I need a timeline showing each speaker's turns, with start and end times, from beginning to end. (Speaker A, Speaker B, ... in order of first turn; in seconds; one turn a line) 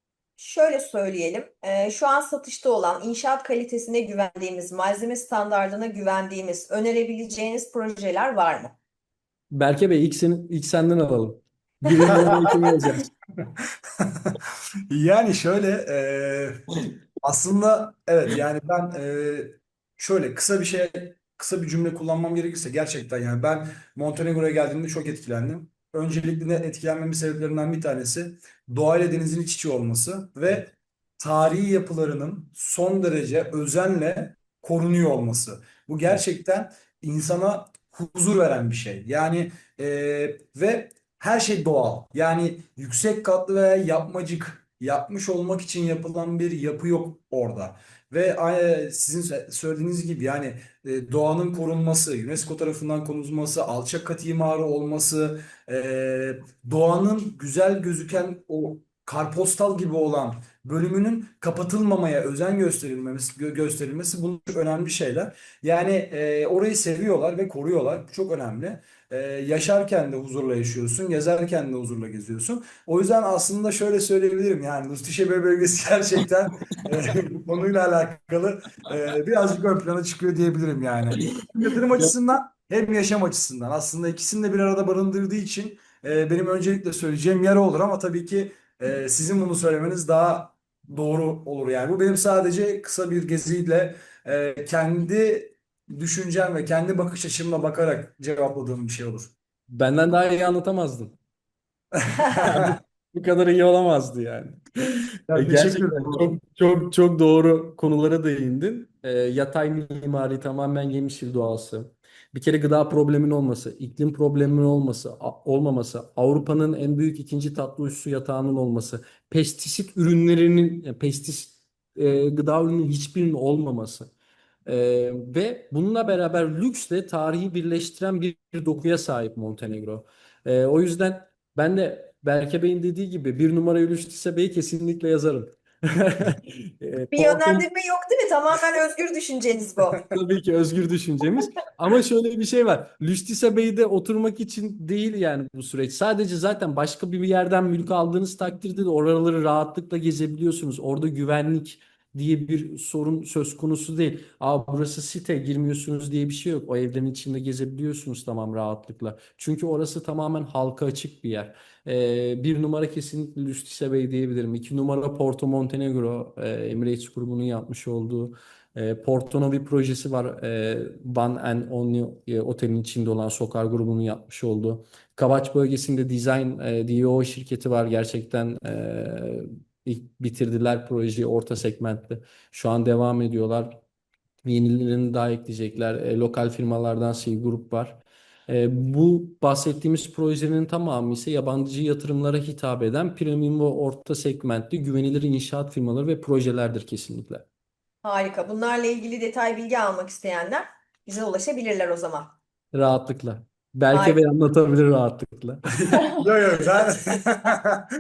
Speaker A: 0.4-8.8
Speaker B: 9.5-13.1
Speaker C: 14.9-16.6
Speaker C: 17.2-99.3
Speaker B: 81.2-82.1
Speaker B: 99.7-101.2
Speaker C: 102.0-102.7
Speaker B: 102.3-124.1
Speaker C: 105.3-106.3
Speaker B: 124.7-137.7
Speaker A: 137.1-140.1
Speaker B: 140.0-183.8
Speaker B: 184.4-197.4
Speaker A: 198.0-202.4
Speaker B: 202.7-206.0
Speaker A: 203.9-204.2
Speaker C: 205.8-207.9